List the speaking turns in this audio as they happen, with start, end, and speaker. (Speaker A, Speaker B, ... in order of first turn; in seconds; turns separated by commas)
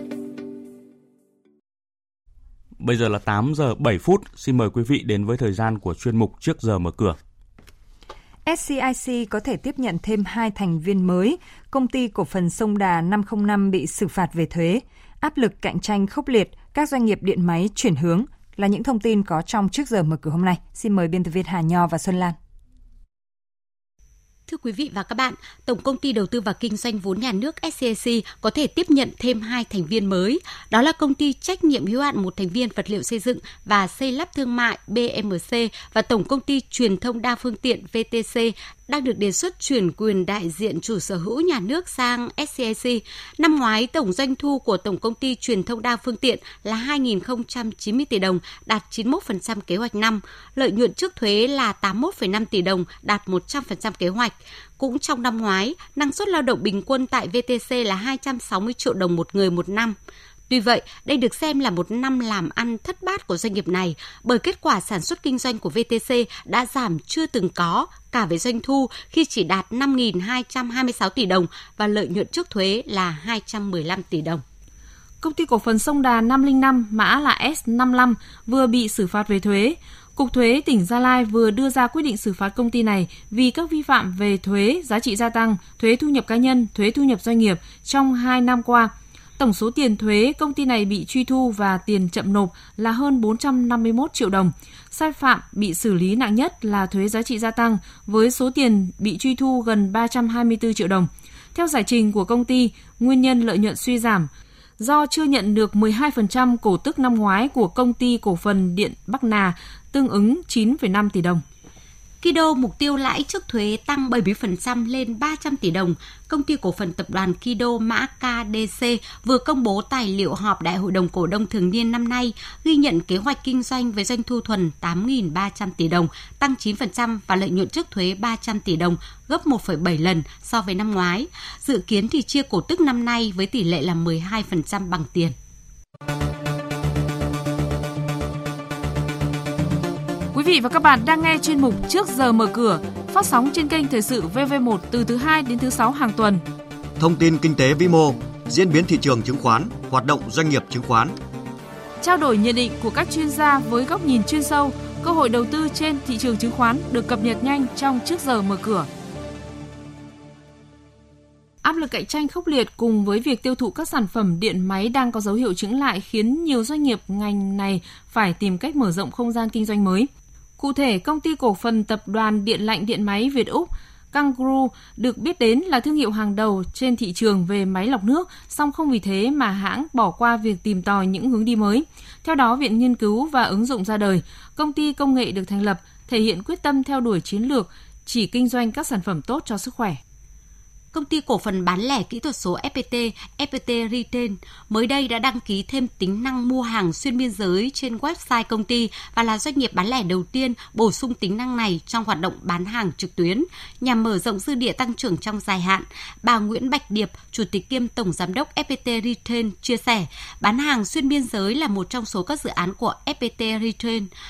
Speaker A: 2.8-7.2, Speaker B: 8.5-22.4, Speaker C: 24.5-60.0, Speaker C: 60.5-74.4, Speaker D: 75.2-111.4, Speaker C: 112.2-135.3, Speaker D: 140.3-146.4, Speaker E: 147.0-151.2, Speaker D: 152.0-158.9, Speaker D: 161.6-190.0, Speaker C: 190.9-214.1